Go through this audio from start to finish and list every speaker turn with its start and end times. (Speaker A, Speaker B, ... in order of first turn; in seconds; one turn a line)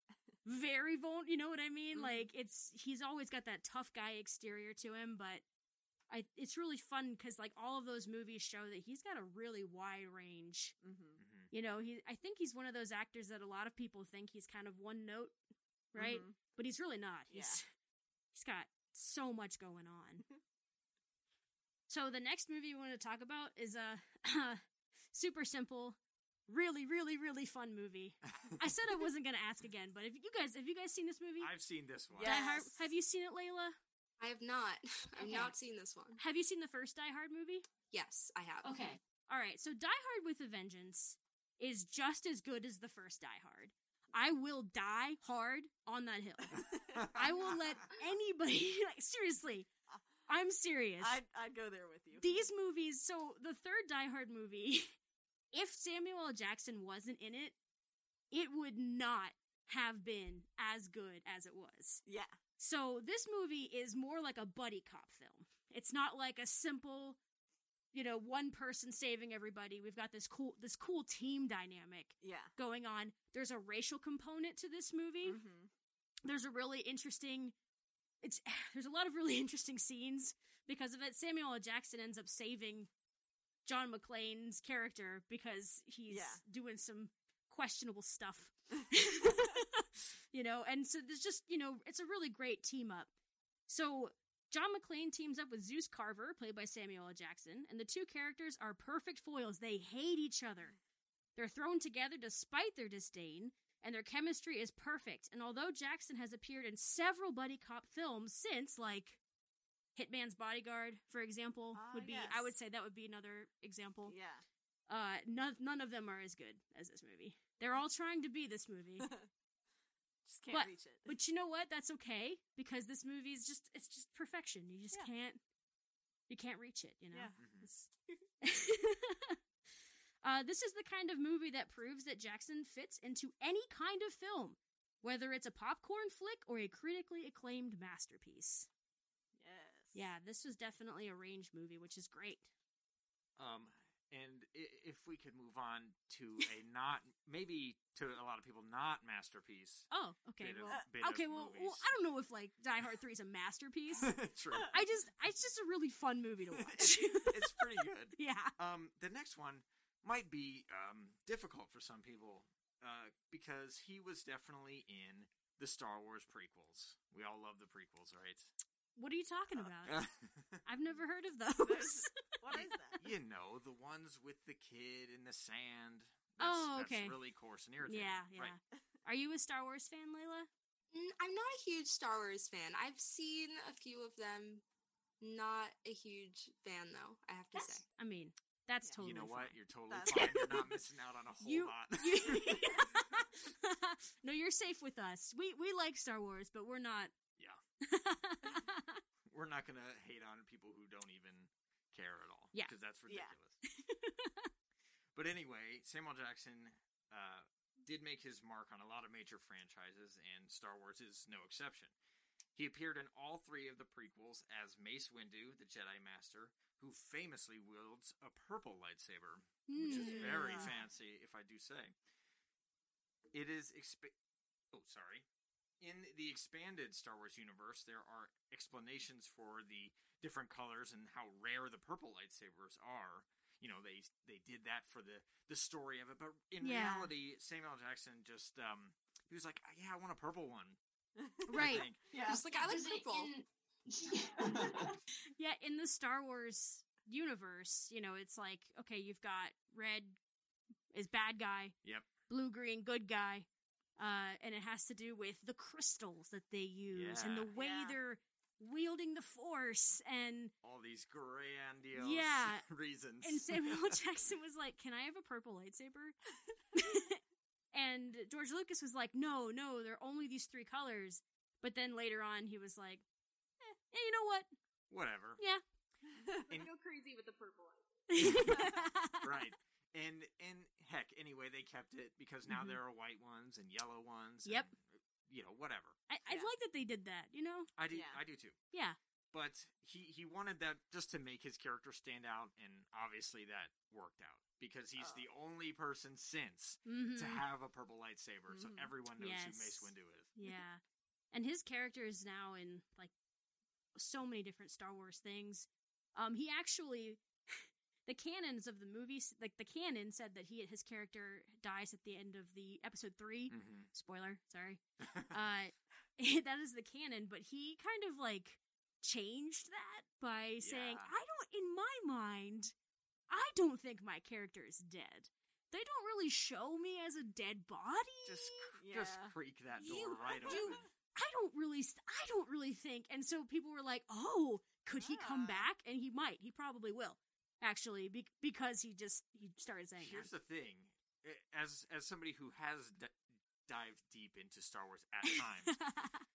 Speaker A: 0.5-5.4
Speaker B: 1.9-2.3
Speaker A: 6.1-10.8
Speaker B: 10.8-11.2
Speaker C: 11.2-11.5
Speaker A: 11.5-15.3
Speaker A: 15.9-17.6
Speaker B: 15.9-16.4
Speaker B: 17.3-17.6
Speaker A: 18.3-20.2
Speaker A: 21.9-31.5
Speaker C: 31.4-32.4
Speaker B: 32.1-32.6
Speaker A: 32.2-33.8
Speaker D: 32.4-32.8
Speaker D: 34.2-36.2
Speaker A: 35.2-35.5
Speaker A: 36.2-37.7
Speaker D: 37.9-38.7
Speaker A: 38.6-49.7
Speaker B: 46.7-47.1
Speaker A: 50.3-51.2
Speaker B: 51.0-52.4
Speaker A: 52.2-55.0
Speaker A: 55.5-57.6
Speaker A: 58.3-62.0
Speaker B: 62.0-62.4
Speaker A: 62.6-67.2
Speaker A: 67.9-75.4
Speaker B: 72.2-72.5
Speaker B: 75.2-75.7
Speaker A: 76.2-77.5
Speaker A: 78.2-82.9
Speaker A: 83.7-93.1
Speaker B: 86.1-86.4
Speaker A: 93.7-100.8
Speaker A: 101.4-109.2
Speaker A: 110.0-114.1
Speaker B: 111.7-112.5
Speaker B: 114.1-114.5
Speaker A: 114.9-119.1
Speaker B: 119.0-119.3
Speaker B: 120.3-121.1
Speaker A: 120.5-125.4
Speaker A: 126.3-127.9
Speaker B: 127.1-127.4
Speaker C: 127.4-127.7
Speaker A: 128.4-129.4
Speaker A: 130.2-138.7
Speaker B: 139.4-140.1
Speaker A: 139.9-142.5
Speaker C: 143.4-151.9
Speaker A: 149.9-154.2
Speaker C: 154.0-154.8
Speaker A: 154.7-158.5
Speaker C: 156.5-168.5
Speaker A: 169.0-170.0
Speaker C: 169.6-170.6
Speaker A: 170.7-172.2
Speaker B: 171.6-173.0
Speaker C: 172.5-178.6
Speaker A: 176.4-177.2
Speaker A: 177.8-180.5
Speaker D: 180.9-184.6
Speaker D: 185.2-187.8
Speaker A: 187.6-189.6
Speaker C: 189.0-192.8
Speaker B: 189.9-190.7
Speaker A: 190.1-190.7
Speaker A: 191.4-197.1
Speaker A: 197.8-199.0
Speaker C: 199.3-203.6
Speaker B: 203.1-203.4
Speaker A: 203.6-204.5
Speaker C: 205.1-211.9
Speaker C: 212.6-221.9
Speaker A: 219.7-220.8
Speaker B: 219.8-220.8
Speaker C: 223.3-224.1
Speaker C: 224.7-225.3
Speaker C: 225.8-240.8
Speaker A: 236.6-237.1
Speaker A: 241.5-241.9
Speaker C: 241.5-242.1
Speaker E: 242.1-243.4
Speaker D: 242.2-243.3
Speaker E: 243.9-244.8
Speaker A: 245.4-250.2
Speaker A: 250.9-251.8
Speaker A: 252.3-260.5
Speaker C: 256.9-257.5
Speaker B: 257.6-258.0
Speaker C: 260.6-264.0
Speaker A: 261.9-262.7
Speaker A: 263.2-266.2
Speaker A: 266.7-267.2
Speaker A: 267.7-273.0
Speaker A: 273.9-274.5
Speaker C: 274.9-275.4
Speaker B: 276.1-276.5
Speaker D: 276.5-277.8
Speaker A: 278.1-279.3
Speaker C: 278.2-278.6
Speaker B: 278.4-278.7
Speaker C: 279.2-286.0
Speaker A: 282.5-282.8
Speaker A: 286.1-287.7
Speaker B: 286.3-286.5
Speaker C: 287.8-288.6
Speaker B: 287.9-288.2
Speaker A: 288.7-289.0
Speaker C: 289.3-300.3
Speaker B: 295.0-295.3
Speaker A: 296.9-297.4
Speaker B: 298.5-298.9
Speaker A: 299.2-300.8
Speaker A: 301.3-303.1
Speaker A: 304.0-322.7
Speaker C: 313.5-313.9
Speaker C: 315.0-315.3
Speaker C: 320.6-321.1
Speaker A: 323.3-328.7
Speaker C: 328.2-330.9
Speaker B: 328.8-329.4
Speaker D: 329.8-330.8
Speaker A: 329.9-340.3
Speaker B: 330.5-330.8
Speaker B: 335.0-335.7
Speaker C: 340.0-345.8
Speaker A: 345.2-346.2